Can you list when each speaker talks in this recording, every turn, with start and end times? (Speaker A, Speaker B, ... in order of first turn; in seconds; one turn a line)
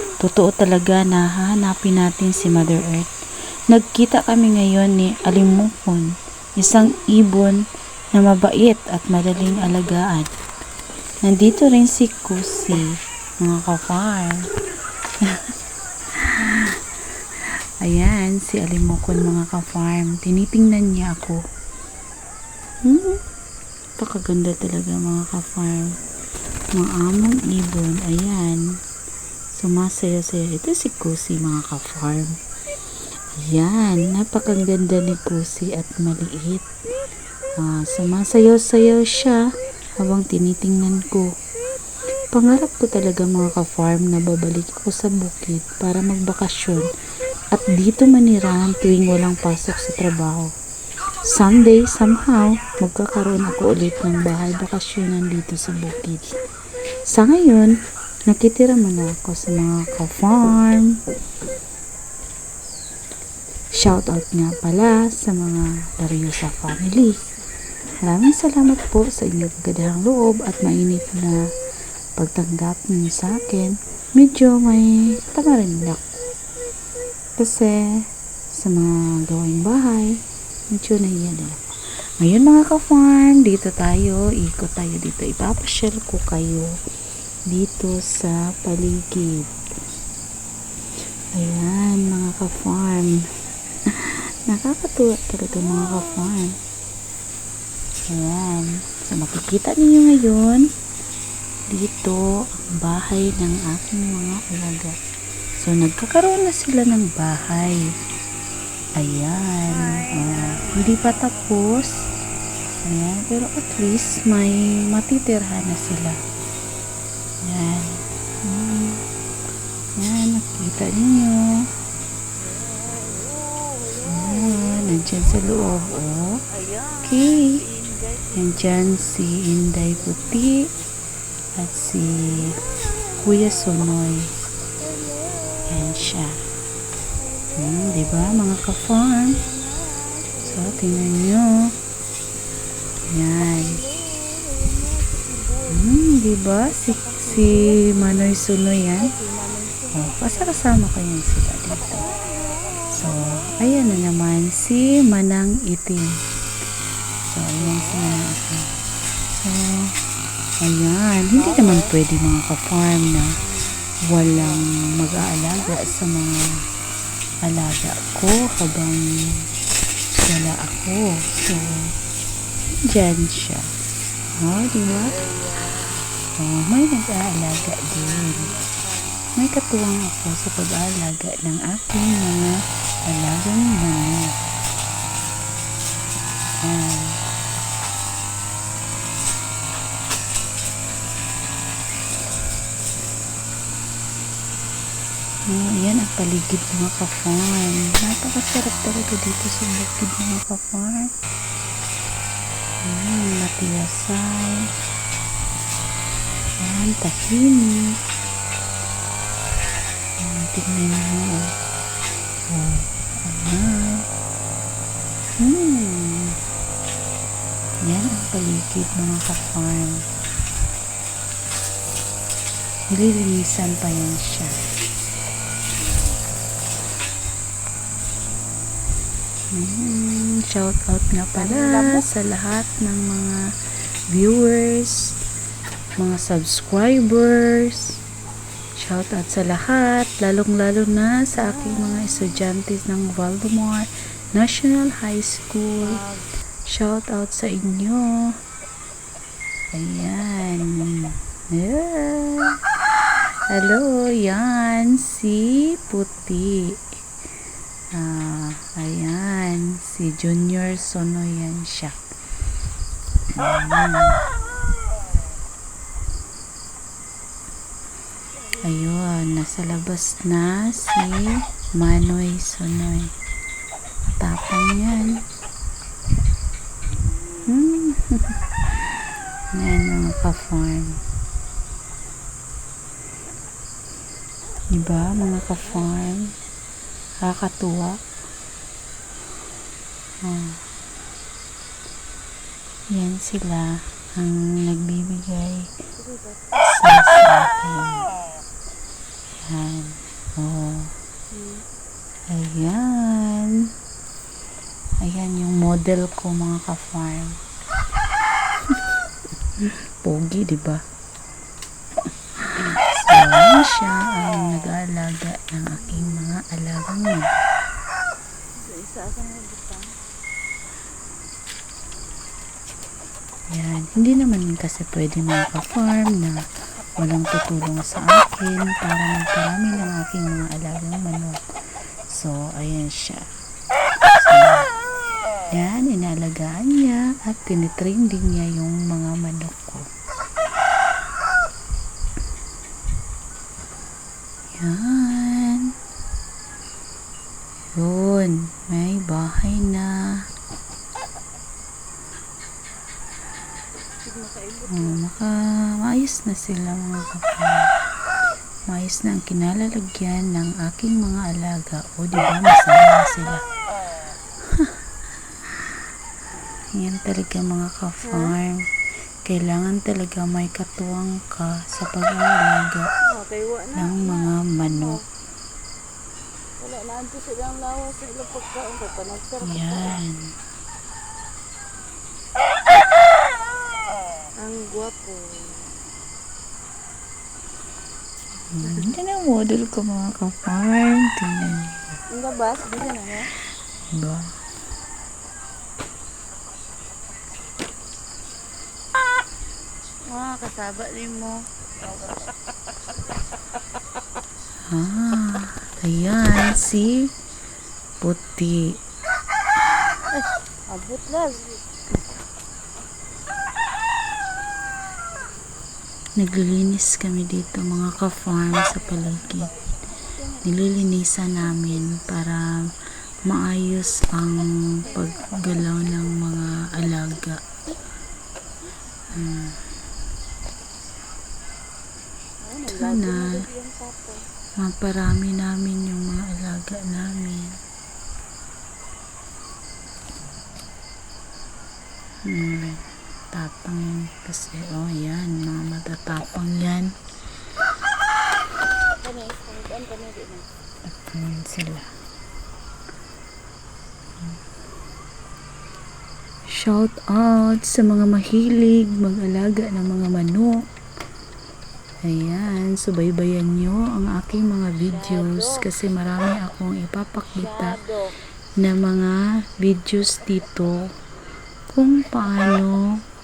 Speaker A: 0.2-3.1
Speaker A: 3.7-7.6
Speaker A: 8.1-10.3
Speaker A: 11.2-14.4
Speaker A: 16.1-16.8
Speaker A: 17.8-21.4
Speaker A: 22.9-23.2
Speaker A: 24.0-26.0
Speaker A: 26.7-28.6
Speaker A: 29.6-32.4
Speaker A: 33.4-36.6
Speaker A: 37.6-39.4
Speaker A: 40.0-41.3
Speaker A: 42.3-46.9
Speaker A: 47.5-50.5
Speaker A: 51.2-56.3
Speaker A: 57.1-57.7
Speaker A: 58.3-61.0
Speaker A: 63.8-67.2
Speaker A: 68.0-71.4
Speaker A: 72.2-76.2
Speaker A: 77.4-80.2
Speaker A: 80.7-81.6
Speaker A: 82.2-86.7
Speaker A: 87.5-89.5
Speaker A: 91.3-93.2
Speaker A: 93.9-96.6
Speaker A: 98.1-100.7
Speaker A: 101.7-105.0
Speaker A: 105.6-107.8
Speaker A: 109.0-112.0
Speaker B: 109.7-111.3
Speaker A: 112.8-116.2
Speaker A: 117.4-119.0
Speaker A: 120.0-121.5
Speaker B: 122.4-125.3
Speaker A: 124.1-126.4
Speaker B: 126.5-128.4
Speaker A: 127.0-127.6
Speaker A: 128.3-130.7
Speaker B: 129.9-130.5
Speaker A: 131.6-132.6
Speaker A: 133.2-134.3
Speaker B: 134.8-135.8
Speaker A: 135.7-136.4
Speaker B: 137.2-138.2
Speaker A: 137.6-139.4
Speaker B: 139.3-141.2
Speaker A: 140.4-141.7
Speaker A: 143.1-143.8
Speaker B: 143.5-148.3
Speaker A: 145.7-149.1
Speaker B: 148.9-150.6
Speaker A: 149.9-152.0
Speaker B: 151.9-154.0
Speaker A: 152.9-156.2
Speaker A: 157.3-158.7
Speaker B: 157.6-158.3
Speaker A: 159.3-159.9
Speaker A: 160.6-163.3
Speaker B: 161.3-161.9
Speaker A: 164.1-166.5
Speaker B: 164.3-164.7
Speaker A: 167.4-169.4
Speaker A: 170.1-171.9
Speaker A: 172.8-173.7
Speaker A: 174.3-175.1
Speaker B: 174.9-176.1
Speaker A: 176.4-178.5
Speaker B: 177.7-179.2
Speaker A: 179.4-184.4
Speaker A: 186.6-187.2
Speaker A: 195.5-201.1
Speaker A: 202.8-204.7
Speaker A: 206.6-207.9
Speaker A: 210.2-211.5
Speaker A: 212.5-214.0
Speaker A: 215.4-216.4
Speaker A: 217.8-220.1
Speaker A: 222.9-224.7
Speaker A: 229.5-233.4
Speaker B: 231.3-232.1
Speaker A: 234.1-235.1
Speaker A: 236.0-237.9
Speaker A: 238.8-246.0
Speaker B: 241.3-242.3
Speaker B: 245.8-246.3
Speaker A: 246.7-248.1
Speaker A: 249.7-257.0
Speaker A: 257.9-262.0
Speaker A: 263.3-264.2
Speaker A: 268.6-273.1
Speaker A: 274.2-275.2
Speaker A: 277.4-278.9
Speaker A: 279.5-281.0
Speaker A: 284.7-286.3
Speaker A: 287.2-288.0
Speaker A: 290.2-290.6
Speaker A: 292.9-295.7
Speaker B: 296.0-296.5
Speaker A: 296.6-298.1
Speaker A: 299.4-300.9
Speaker B: 301.3-301.6
Speaker A: 302.3-303.7
Speaker A: 305.0-307.4
Speaker A: 309.6-310.8
Speaker A: 312.4-317.4
Speaker B: 318.5-320.0
Speaker A: 323.5-326.4
Speaker A: 327.0-331.4
Speaker A: 332.1-333.2
Speaker A: 334.1-334.7
Speaker A: 335.5-339.8
Speaker A: 344.6-345.7
Speaker A: 347.7-349.9
Speaker B: 354.0-355.0
Speaker A: 354.7-357.7
Speaker A: 358.7-363.4
Speaker A: 366.7-368.6
Speaker B: 368.0-368.3
Speaker A: 369.2-372.9
Speaker B: 373.0-375.0
Speaker A: 373.8-375.0
Speaker B: 376.6-380.0
Speaker A: 379.4-380.3
Speaker B: 384.4-385.7
Speaker A: 388.5-392.0
Speaker B: 392.1-393.3
Speaker A: 393.9-394.3
Speaker B: 400.1-401.5
Speaker A: 404.7-407.1
Speaker A: 408.0-408.8
Speaker B: 410.5-411.6
Speaker A: 416.2-419.5
Speaker B: 420.1-420.5
Speaker A: 420.4-422.5
Speaker A: 423.2-427.4
Speaker B: 424.9-425.3
Speaker A: 429.1-429.6
Speaker B: 432.4-434.3
Speaker A: 432.7-433.4
Speaker A: 434.6-437.6
Speaker A: 442.2-446.9
Speaker B: 449.0-450.5
Speaker A: 450.9-451.9
Speaker A: 456.5-460.6
Speaker A: 462.0-467.8
Speaker B: 464.9-465.6
Speaker B: 467.3-468.1
Speaker A: 468.6-470.8
Speaker A: 471.7-472.9